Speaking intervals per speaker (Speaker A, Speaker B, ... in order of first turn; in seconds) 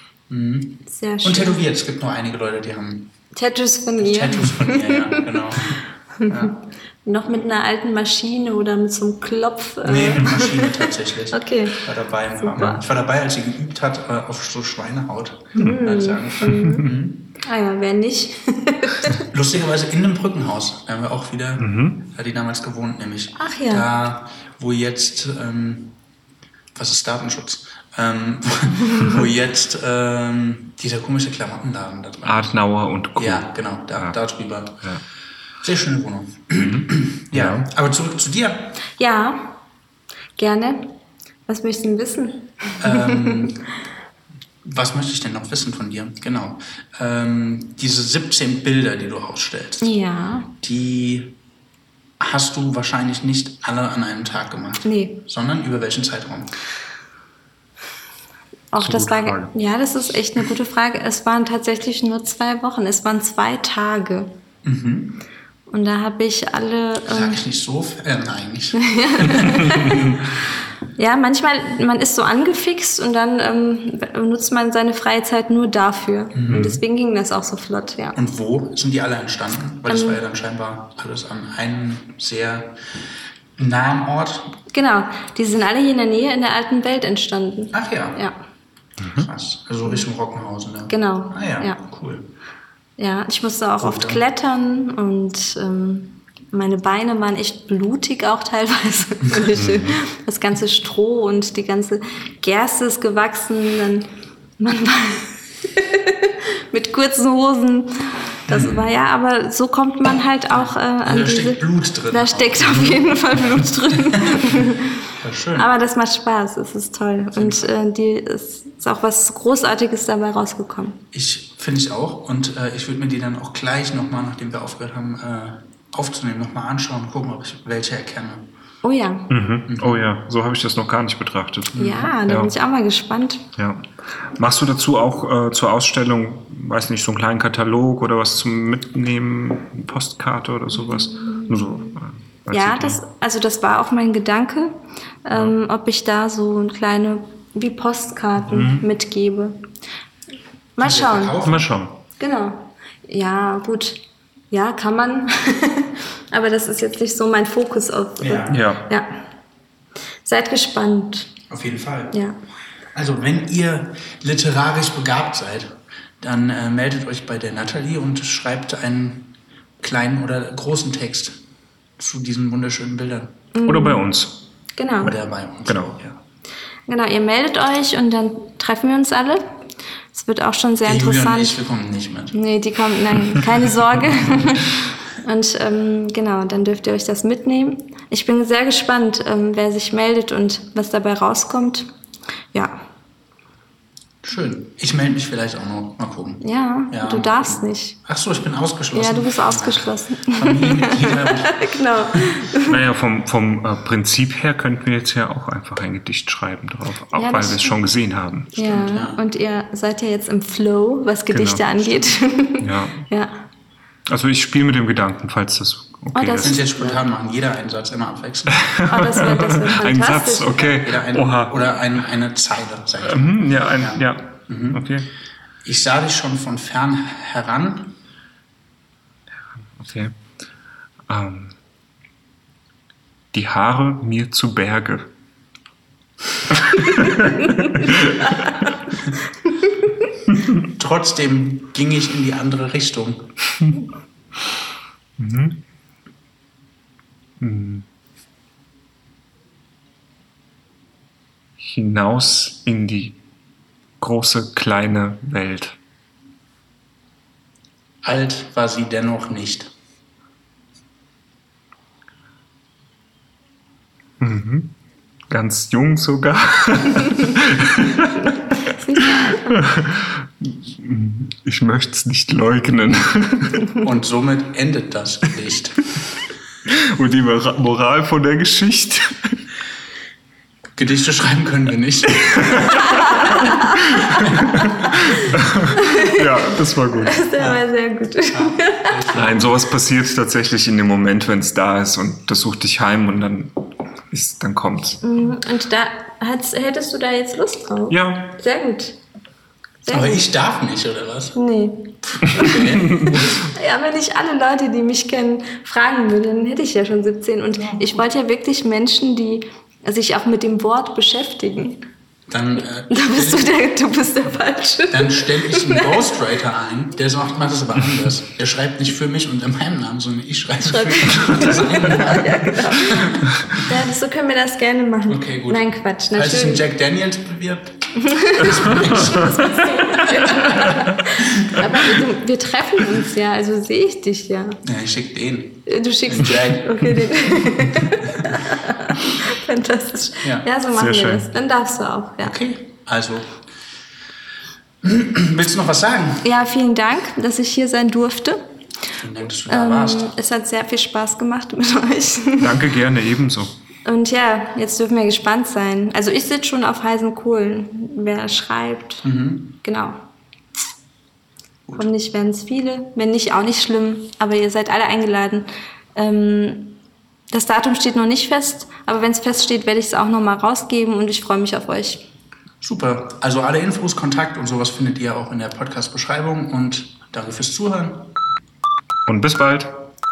Speaker A: 0.3-3.1, 4.0-6.6, 9.8-17.3, 19.1-26.0, 26.7-32.6, 33.1-34.9, 35.6-38.8, 42.8-43.6, 44.6-49.9, 50.6-51.4, 52.2-56.5, 64.6-65.2, 67.1-69.9, 76.3-76.8, 78.1-83.0, 83.5-84.6, 87.7-88.2, 89.1-92.3, 93.8-94.2, 108.5-108.9, 110.5-113.4, 114.2-115.7, 117.3-117.7, 121.1-128.5, 129.7-130.1, 131.7-132.1, 150.8-151.7, 158.2-158.7, 161.5-162.2, 162.9-171.4, 172.0-173.3, 175.0-176.2, 180.8-182.4, 194.2-202.3, 208.6-209.2, 216.4-218.7, 220.6-224.8, 225.6-227.9, 240.7-243.3, 258.0-259.7, 273.8-275.8, 280.8-282.9, 284.1-284.6, 288.2-289.5, 299.9-301.4, 302.1-303.3, 307.5-308.0, 312.3-313.5, 314.9-323.6, 325.1-331.8, 334.6-337.0, 337.7-338.4, 340.2-340.5, 342.2-343.4, 344.8-346.3, 348.9-350.1, 359.0-359.6, 372.6-378.1
Speaker B: 0.9-1.6, 3.3-5.3, 6.2-12.8, 15.6-16.9, 17.4-19.2, 23.4-23.9, 39.0-39.6, 40.4-41.0, 41.5-43.5, 49.8-50.5, 54.8-55.2, 58.7-64.3, 65.7-67.4, 68.7-70.2, 71.0-78.2, 79.9-80.2, 84.7-88.4, 90.9-91.8, 93.0-115.0, 115.6-121.0, 128.8-129.3, 131.7-133.5, 140.9-141.9, 142.5-149.7, 150.8-151.4, 152.2-159.2, 160.2-161.3, 162.1-162.4, 173.5-174.1, 174.8-175.1, 176.9-179.4, 180.1-181.6, 182.3-191.9, 192.5-192.8, 196.4-198.0, 198.9-202.8, 207.1-207.8, 208.5-213.4, 216.1-217.0, 218.9-220.7, 237.0-238.7, 268.6-269.7, 283.1-283.7, 285.1-289.1, 295.0-299.0, 299.8-300.3, 301.3-311.9, 312.9-316.2, 320.6-326.6, 328.0-334.6, 335.7-342.3, 346.2-348.4, 349.5-352.6, 353.8-359.1, 359.6-360.0, 361.8-366.8, 367.3-372.1
Speaker C: 16.4-16.8, 21.6-22.0, 32.2-34.1, 36.5-37.7, 58.8-59.5, 89.0-89.3, 99.5-100.0, 129.3-132.5, 133.6-143.0, 151.4-152.0, 158.5-158.8, 173.7-174.4, 175.7-175.9, 202.6-208.6, 211.3-211.8, 212.6-213.1, 214.1-216.6, 218.6-221.5, 223.0-225.1, 229.8-230.1, 231.1-231.6, 233.3-235.1, 236.6-238.5, 245.2-245.6, 247.4-247.8, 251.6-253.2, 254.0-255.8, 264.2-264.7, 265.3-268.4, 269.0-273.7, 276.7-279.4, 282.2-287.2, 289.1-293.5, 294.1-295.0, 297.9-298.3, 340.7-341.3, 352.4-353.5, 379.1-379.8